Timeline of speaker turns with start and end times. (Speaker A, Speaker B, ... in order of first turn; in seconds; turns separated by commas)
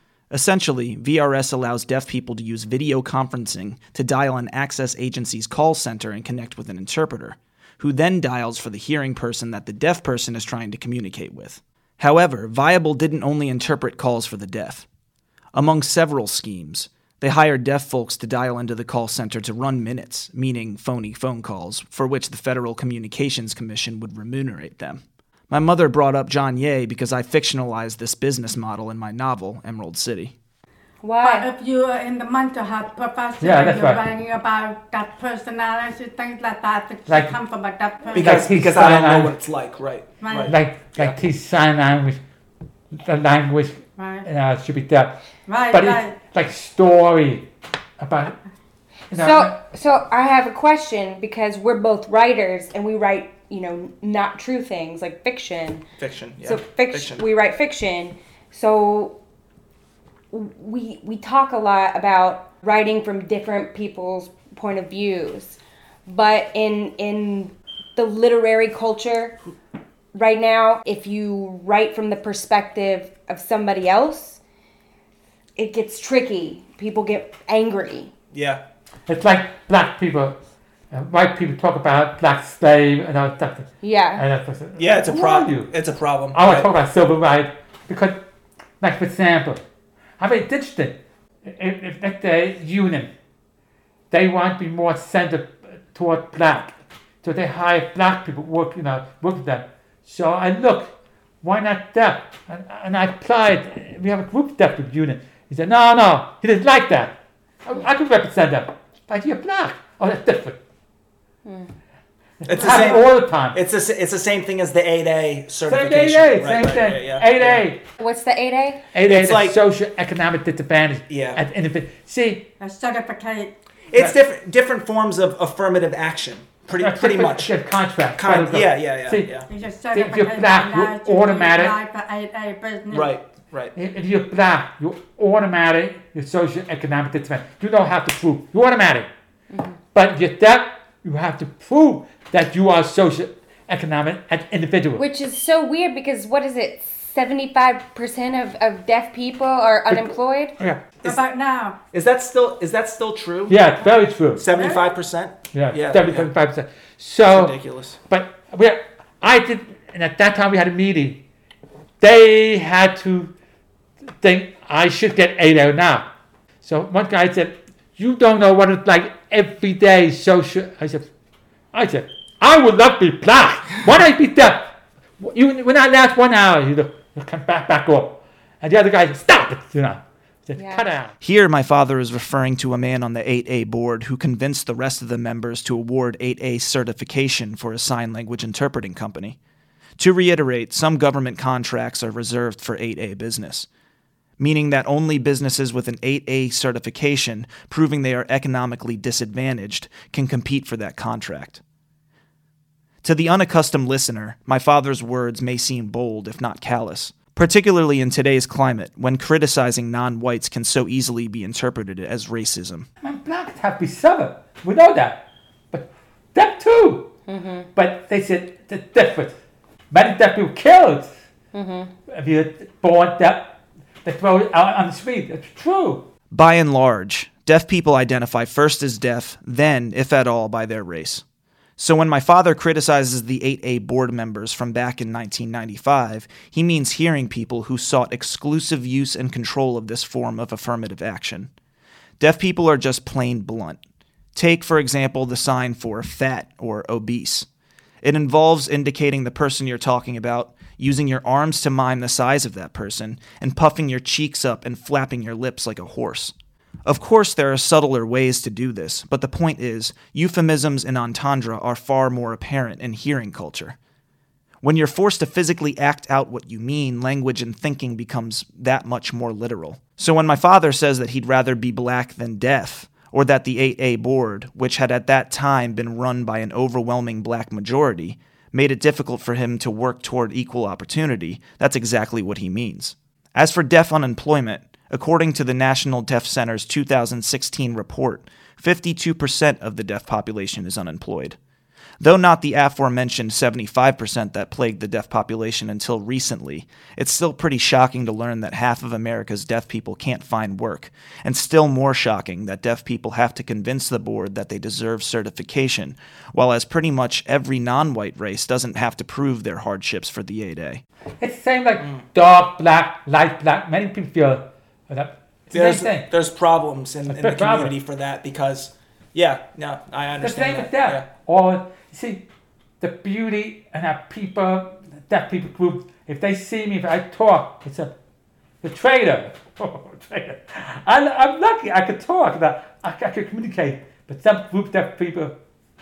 Speaker A: 0.3-14.8, Speaker A: 15.5-30.3, Speaker B: 31.0-31.5, Speaker C: 31.2-38.5, Speaker D: 33.4-34.0, Speaker D: 37.1-37.3, Speaker E: 38.1-41.2, Speaker D: 38.1-39.3, Speaker C: 40.2-40.5, Speaker D: 40.5-42.2, Speaker D: 42.9-45.2, Speaker C: 44.0-44.2, Speaker C: 45.5-46.1, Speaker D: 45.7-47.5, Speaker D: 48.0-48.4, Speaker D: 49.1-49.5, Speaker B: 49.1-55.8, Speaker E: 56.0-57.2, Speaker B: 56.4-59.2, Speaker B: 60.3-69.4, Speaker B: 70.1-74.4, Speaker B: 75.5-78.1, Speaker E: 78.3-78.6, Speaker D: 79.1-80.4, Speaker D: 80.9-85.7, Speaker B: 83.8-84.2, Speaker E: 84.8-86.7, Speaker D: 86.3-88.2, Speaker D: 88.8-89.6, Speaker D: 90.2-93.1, Speaker D: 94.1-100.9, Speaker D: 101.4-110.6, Speaker B: 111.4-111.7, Speaker D: 112.4-113.6, Speaker E: 112.5-117.6, Speaker C: 112.5-113.0, Speaker D: 115.6-117.8, Speaker B: 118.0-118.8, Speaker D: 118.9-122.5, Speaker E: 119.0-119.5, Speaker E: 121.1-121.4, Speaker C: 122.6-123.5, Speaker E: 123.9-127.5, Speaker D: 126.8-129.3, Speaker E: 128.2-129.4, Speaker C: 129.5-133.1, Speaker D: 129.9-131.8, Speaker E: 132.9-133.7, Speaker D: 133.7-139.1, Speaker B: 139.5-139.8, Speaker D: 139.9-145.0, Speaker B: 145.0-150.6, Speaker C: 151.0-151.8, Speaker E: 151.9-153.6, Speaker D: 153.5-154.4, Speaker E: 154.4-156.3, Speaker C: 154.5-154.9, Speaker D: 155.5-157.6, Speaker E: 157.3-158.0, Speaker D: 158.1-161.2, Speaker D: 162.0-163.3, Speaker D: 164.2-166.1, Speaker D: 166.6-171.1, Speaker D: 171.7-181.1, Speaker B: 180.6-180.8, Speaker A: 181.2-189.4, Speaker A: 190.0-193.7, Speaker A: 194.4-201.6, Speaker A: 203.0-212.9, Speaker D: 213.0-217.1, Speaker B: 217.3-217.7, Speaker D: 217.7-219.3, Speaker D: 219.9-221.1, Speaker B: 221.5-221.9, Speaker D: 222.1-226.1, Speaker A: 226.3-231.2, Speaker A: 231.8-241.5, Speaker A: 242.2-243.8, Speaker A: 244.3-247.5, Speaker A: 248.0-263.8, Speaker A: 264.6-291.4, Speaker A: 292.0-310.8, Speaker D: 311.2-316.1, Speaker E: 315.5-321.1, Speaker D: 317.1-317.7, Speaker D: 320.2-322.2, Speaker D: 322.8-327.9, Speaker D: 328.6-335.3